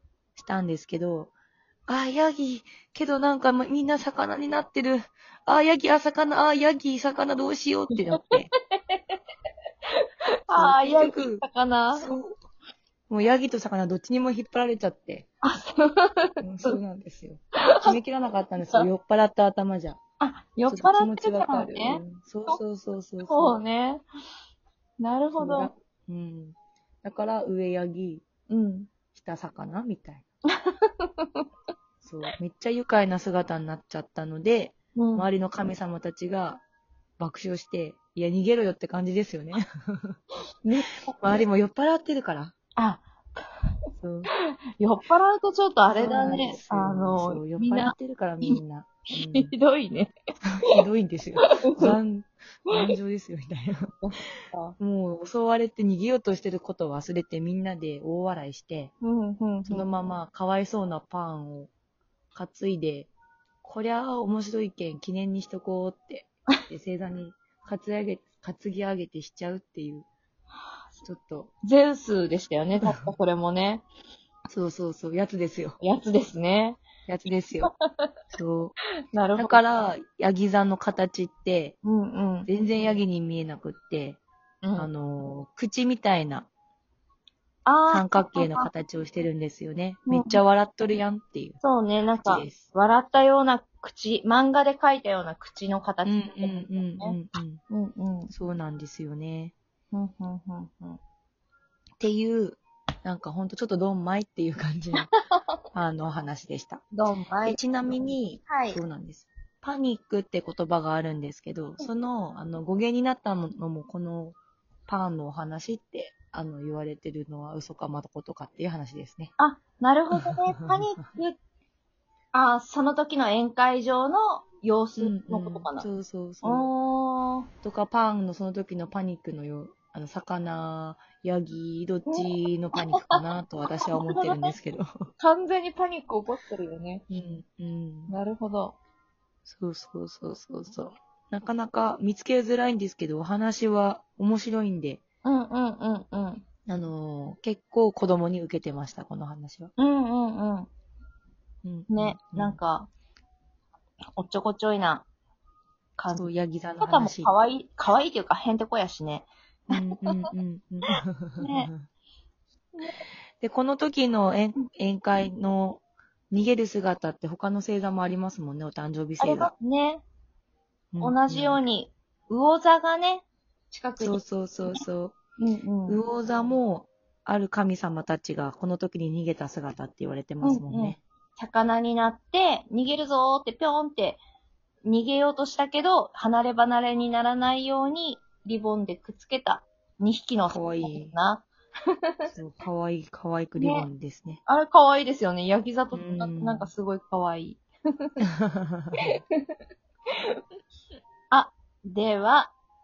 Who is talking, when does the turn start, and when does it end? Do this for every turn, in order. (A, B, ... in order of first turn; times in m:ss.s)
0:00.4-0:01.3 A
0:01.9-0:08.5 A
0:08.8-0:09.2 B
0:10.5-0:12.1 B
0:10.5-0:12.3 A
0:13.1-0:15.3 A
0:15.4-0:16.8 B
0:16.4-0:20.0 A
0:17.7-0:17.9 B
0:20.2-0:22.6 B
0:20.7-0:23.6 A
0:23.2-0:24.0 B
0:25.0-0:25.7 B
0:25.4-0:28.2 A
0:28.5-0:28.9 B
0:29.1-0:30.2 A
0:30.6-0:31.4 B
0:32.0-0:36.6 A
0:35.0-0:35.3 B
0:37.2-0:40.2 A
0:40.6-0:41.4 B
0:41.2-0:42.5 A
0:42.8-0:43.5 B
0:44.0-0:44.3 A
0:44.3-0:48.6 B
0:45.9-0:49.5 A
0:49.3-0:50.1 B
0:50.6-0:54.0 A
0:51.6-0:51.9 B
0:54.0-0:54.7 B
0:54.8-0:58.9 A
0:59.0-0:59.9 B
0:59.7-1:01.7 A
1:02.3-1:03.1 A
1:03.6-1:10.1 A
1:11.0-1:11.5 A
1:11.6-1:13.8 B
1:14.5-1:15.8 A
1:15.8-1:16.8 B
1:17.1-1:17.7 A
1:17.6-1:18.1 B
1:18.3-1:18.8 A
1:19.1-1:19.6 B
1:19.3-1:21.7 A
1:21.8-1:22.5 B
1:22.4-1:24.2 A
1:24.6-1:24.9 B
1:24.8-1:26.5 A
1:27.6-1:28.7 B
1:27.9-1:31.6 A
1:30.1-1:30.4 B
1:31.6-1:37.2 B
1:32.2-1:32.7 A
1:36.0-1:37.6 A
1:37.7-1:38.3 B
1:38.3-1:39.5 A
1:39.9-1:41.0 B
1:42.0-1:45.1 A
1:45.7-1:46.8 A
1:46.9-1:47.6 B
1:47.4-1:59.3 A
1:48.5-1:48.8 B
1:59.4-2:01.4 B
2:00.2-2:00.8 A
2:02.3-2:05.9 B
2:05.0-2:06.7 A
2:06.4-2:07.5 B
2:07.6-2:15.1 A
2:12.1-2:13.2 B
2:13.9-2:14.5 B
2:15.2-2:17.0 B
2:17.1-2:18.1 A
2:18.1-2:18.8 B
2:19.4-2:25.0 A
2:25.2-2:26.4 B
2:26.7-2:29.7 A
2:29.8-2:30.7 B
2:31.6-2:32.6 A
2:31.9-2:32.9 B
2:34.2-2:35.0 B
2:36.0-2:36.3 B
2:36.1-2:37.4 A
2:36.8-2:40.2 B
2:39.7-2:41.8 A
2:41.4-2:41.7 B
2:43.4-2:49.5 A
2:49.2-2:50.0 B
2:50.9-2:51.6 A
2:51.0-2:54.2 B
2:54.0-2:55.2 A
2:55.4-2:56.0 B
2:55.9-3:01.0 A
3:00.4-3:04.2 B
3:04.8-3:11.5 B
3:10.5-3:11.1 A
3:12.3-3:14.4 A
3:13.6-3:13.9 B
3:14.4-3:18.2 B
3:15.9-3:16.7 A
3:18.4-3:19.0 A
3:21.3-3:22.5 B